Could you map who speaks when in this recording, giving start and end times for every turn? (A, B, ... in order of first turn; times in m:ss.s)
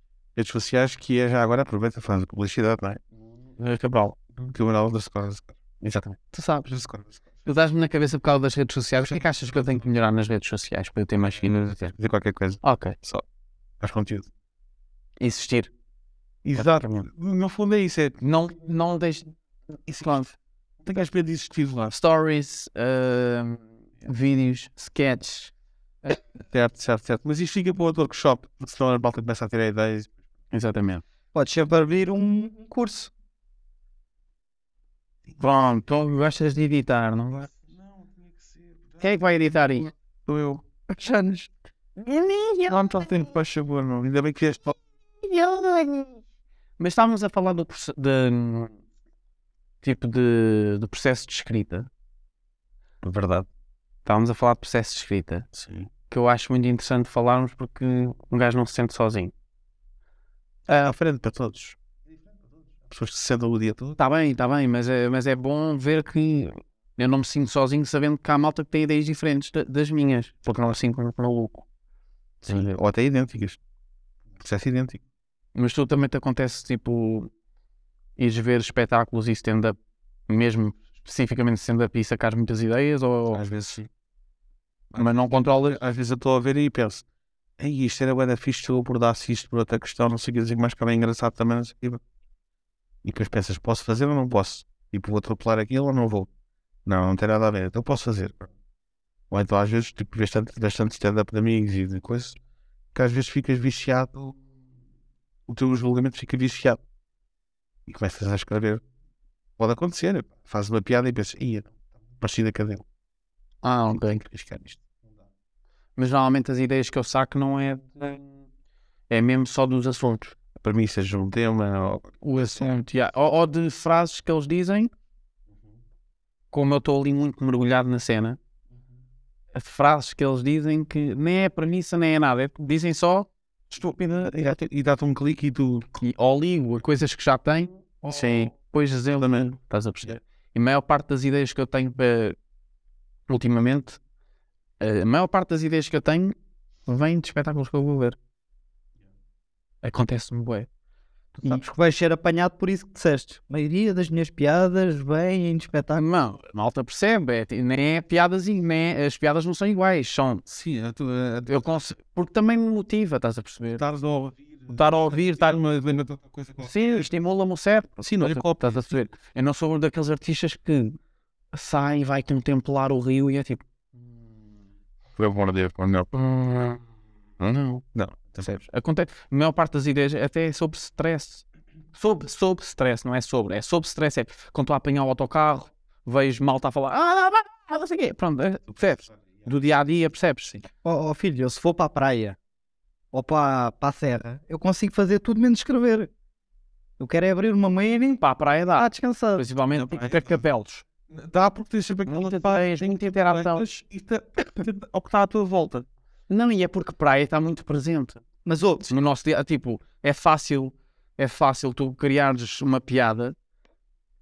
0:00.4-0:03.0 A
0:03.6-0:04.2 B
0:04.4-0:05.5 A
0:05.8-0:06.7 B
0:06.6-0:07.4 A
0:07.4-0:11.9 B
0:09.0-0:09.8 A
0:11.3-0:13.2 A
0:12.6-0:13.0 B
0:13.8-0:14.3 A
0:15.2-0:15.7 B
0:16.4-0:18.2 A
0:16.5-0:17.1 B
0:18.2-0:19.3 B
0:19.9-0:20.2 A
0:19.9-0:20.3 B
0:20.8-0:21.9 A
0:21.9-0:25.5 B
0:26.5-0:30.1 A
0:30.5-0:31.0 B
0:31.3-0:33.1 C
0:35.4-0:37.5 B
0:37.5-0:39.1 A
0:39.0-0:39.9 B
0:40.2-0:40.6 A
0:40.9-0:41.5 C
0:42.0-0:43.1 B
0:42.7-0:44.8 A
0:45.2-0:46.1 B
0:46.8-0:48.7 B
0:49.8-0:51.9 B
0:53.0-0:53.5 A
0:54.0-0:55.5 B
0:55.5-0:55.9 A
0:56.1-0:59.3 B
1:00.7-1:01.8 A
1:02.9-1:04.0 A
1:04.0-1:11.6 B
1:12.4-1:12.7 B
1:12.4-1:13.6 A
1:14.4-1:15.0 A
1:15.5-1:17.3 B
1:18.2-1:19.8 B
1:20.3-1:23.4 B
1:23.3-1:23.9 A
1:24.9-1:27.0 A
1:25.0-1:25.8 B
1:27.6-1:32.0 A
1:33.0-1:36.3 A
1:36.8-1:38.5 A
1:39.3-1:42.4 A
1:42.9-1:44.4 A
1:45.5-1:46.8 A
1:47.9-1:48.8 A
1:49.6-1:52.8 A
1:53.6-1:54.5 B
1:54.3-1:54.8 A
1:56.0-1:58.3 B
1:59.1-2:00.3 B
2:00.6-2:02.6 A
2:02.2-2:04.9 B
2:06.5-2:08.4 B
2:09.5-2:13.3 B
2:13.7-2:15.9 A
2:16.0-2:22.4 B
2:18.1-2:18.5 A
2:19.1-2:19.5 A
2:23.3-2:24.0 B
2:24.8-2:26.3 B
2:26.9-2:28.2 B
2:29.8-2:30.7 B
2:31.4-2:36.0 C
2:36.0-2:40.4 B
2:40.4-2:41.8 A
2:41.5-2:43.8 B
2:43.8-2:47.0 A
2:44.7-2:45.6 B
2:46.6-2:51.0 B
2:48.0-2:48.8 A
2:51.5-2:53.6 B
2:55.2-2:56.1 A
2:56.1-2:56.8 B
2:57.4-2:57.8 B
2:57.9-2:58.6 A
2:58.4-3:10.6 B
3:10.8-3:12.4 C
3:13.1-3:16.1 C
3:17.0-3:18.2 C
3:18.2-3:20.8 B
3:18.8-3:19.4 C
3:19.7-3:20.4 A
3:21.1-3:25.9 A
3:22.1-3:23.6 B
3:26.3-3:28.2 B
3:28.4-3:28.9 C
3:28.9-3:33.3 B